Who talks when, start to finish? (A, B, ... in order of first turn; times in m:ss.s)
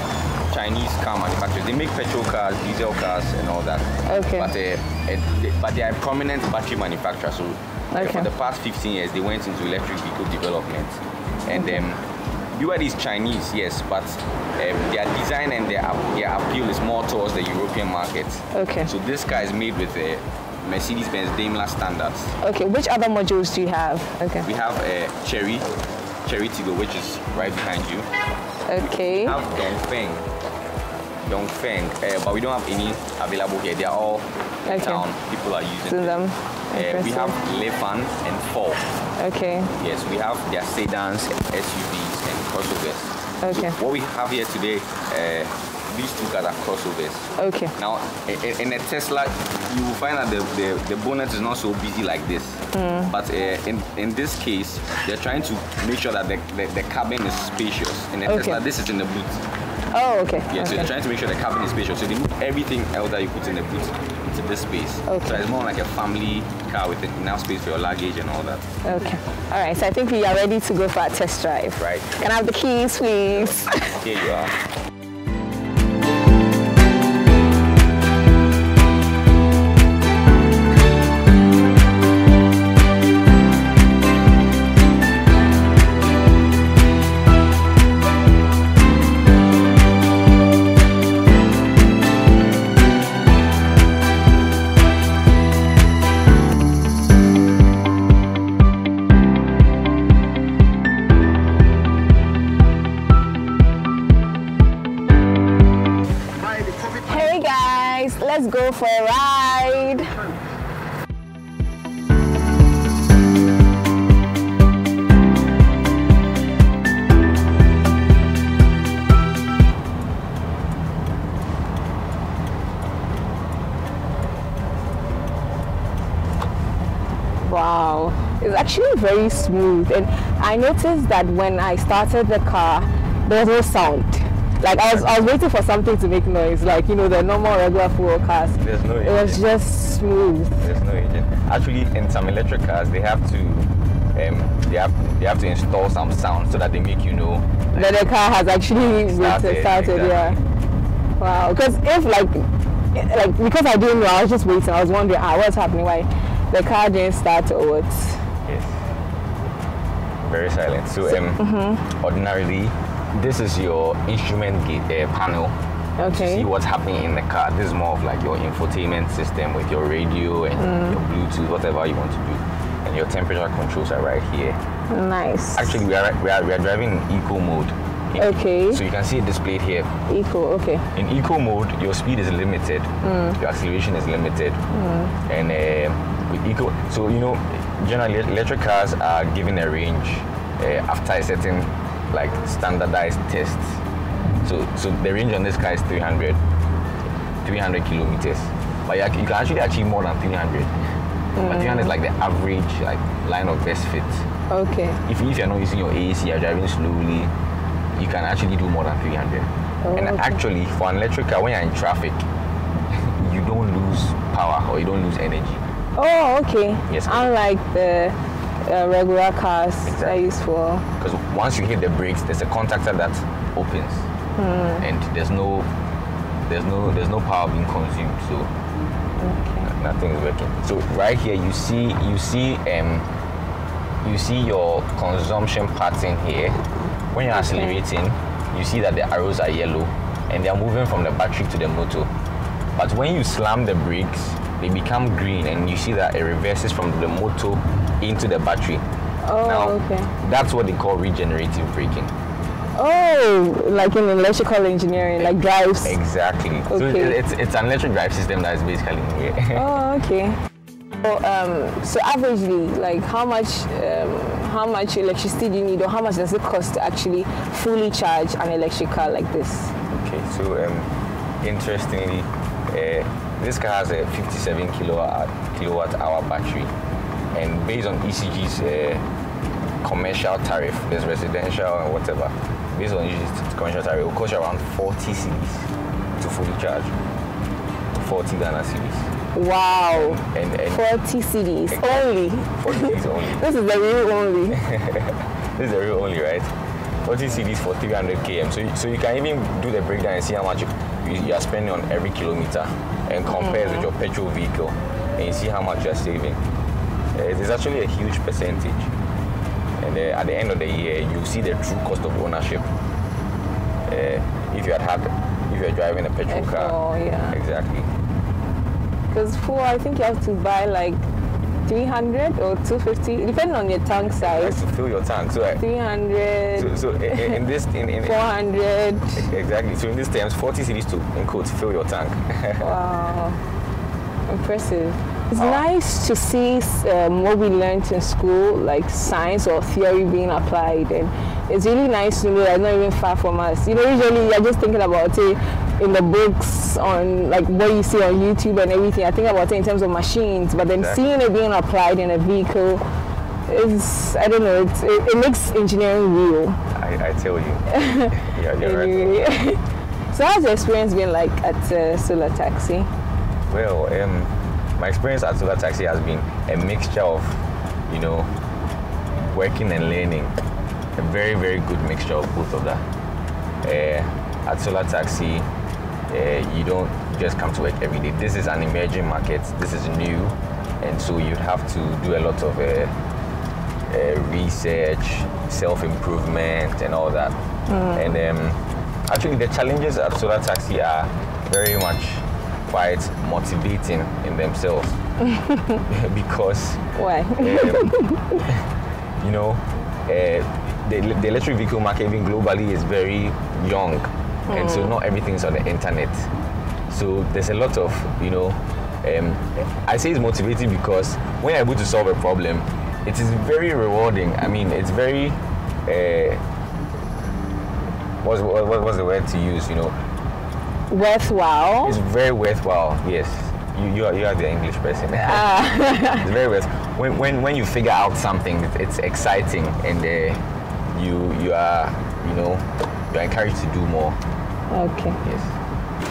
0:00.5-0:12.0 A
0:04.1-0:04.5 B
0:07.9-0:08.3 B
0:11.5-0:11.8 B
0:12.5-0:22.4 A
0:18.5-0:18.9 B
0:22.4-0:24.5 B
0:24.4-0:25.7 A
0:26.2-0:28.1 A
0:28.7-0:29.4 B
0:29.2-0:30.3 A
0:31.3-0:36.2 A
0:34.7-0:35.0 B
0:35.9-0:37.4 B
0:36.7-0:38.8 A
0:39.2-0:39.7 B
0:39.8-0:59.4 A
0:43.4-0:43.8 B
0:47.4-0:47.7 B
0:52.7-0:53.1 B
0:58.3-0:58.6 B
0:59.9-1:00.9 B
1:00.5-1:08.7 A
1:05.1-1:05.4 B
1:08.8-1:14.0 B
1:11.8-1:12.2 A
1:13.7-1:14.6 A
1:46.8-1:50.1 B
2:07.4-2:20.6 B
2:14.9-2:15.1 A
2:18.6-2:19.5 A
2:20.6-2:28.2 A
2:27.8-2:30.4 B
2:29.0-2:30.4 A
2:31.2-2:38.2 B
2:38.5-2:38.8 A
2:40.2-2:45.6 A
2:41.1-2:41.8 B
2:46.0-2:46.5 B
2:46.1-2:54.6 A
2:50.6-2:51.0 B
2:54.9-2:55.8 B
2:55.6-3:00.0 A
2:58.2-2:58.8 B
3:00.1-3:00.9 B
3:00.9-3:04.6 A
3:03.0-3:03.4 B
3:04.7-3:05.1 B
3:05.3-3:13.8 A
3:14.4-3:16.4 A
3:17.4-3:20.8 A
3:21.4-3:21.9 B
3:21.4-3:24.3 A
3:24.5-3:25.0 B
3:25.1-3:27.3 A
3:28.0-3:32.2 A
3:29.8-3:30.4 B
3:32.9-3:35.6 A
3:36.0-3:40.8 B
3:36.9-3:37.3 A
3:39.8-3:40.2 A
3:41.0-3:44.1 A
3:44.4-3:44.8 B
3:44.8-3:45.7 A
3:46.5-3:48.5 A
3:49.2-3:49.7 B
3:49.6-3:53.1 A
3:54.0-4:02.1 A
3:57.4-3:57.8 B
4:02.8-4:08.8 A
4:09.2-4:10.1 B
4:09.4-4:12.1 A
4:12.8-4:15.9 B
4:15.8-4:19.6 A
4:16.7-4:17.2 B
4:19.6-4:20.4 B
4:21.0-4:29.7 B
4:29.9-4:30.9 A
4:31.4-4:36.7 A
4:37.3-4:39.0 A
4:39.8-4:47.0 A
4:48.0-4:49.1 A
4:49.3-4:54.6 B
4:50.1-4:50.8 A
4:51.7-4:53.4 A
4:54.6-4:56.5 A
4:57.0-5:06.4 A
5:03.4-5:03.8 B
5:07.2-5:08.9 A
5:09.8-5:12.7 A
5:13.9-5:16.8 A
5:16.3-5:17.4 B
5:17.3-5:17.9 A
5:19.1-5:21.0 B
5:21.7-5:24.6 B
5:24.2-5:25.6 A
5:25.6-5:27.4 B
5:26.6-5:28.3 A
5:28.0-5:29.2 B
5:29.2-5:32.6 A
5:32.6-5:33.4 B
5:34.3-5:52.8 B
5:35.4-5:35.6 A
5:53.5-5:56.6 B
5:56.7-5:59.2 A
5:57.7-6:02.9 B
6:03.5-6:08.3 A
6:09.3-6:10.4 A
6:11.0-6:12.8 A
6:13.6-6:15.5 A
6:16.1-6:22.9 A
6:23.9-6:27.4 A
6:27.7-6:28.2 B
6:27.9-6:35.0 A
6:35.2-6:35.8 B
6:35.9-6:38.6 A
6:37.0-6:38.4 B
6:39.2-6:46.3 A
6:44.5-6:44.9 B
6:46.9-6:56.4 A
6:58.2-6:59.9 A
7:00.9-7:02.0 B
7:01.8-7:14.2 A
7:05.2-7:06.2 B
7:14.7-7:15.2 B
7:15.2-7:15.5 A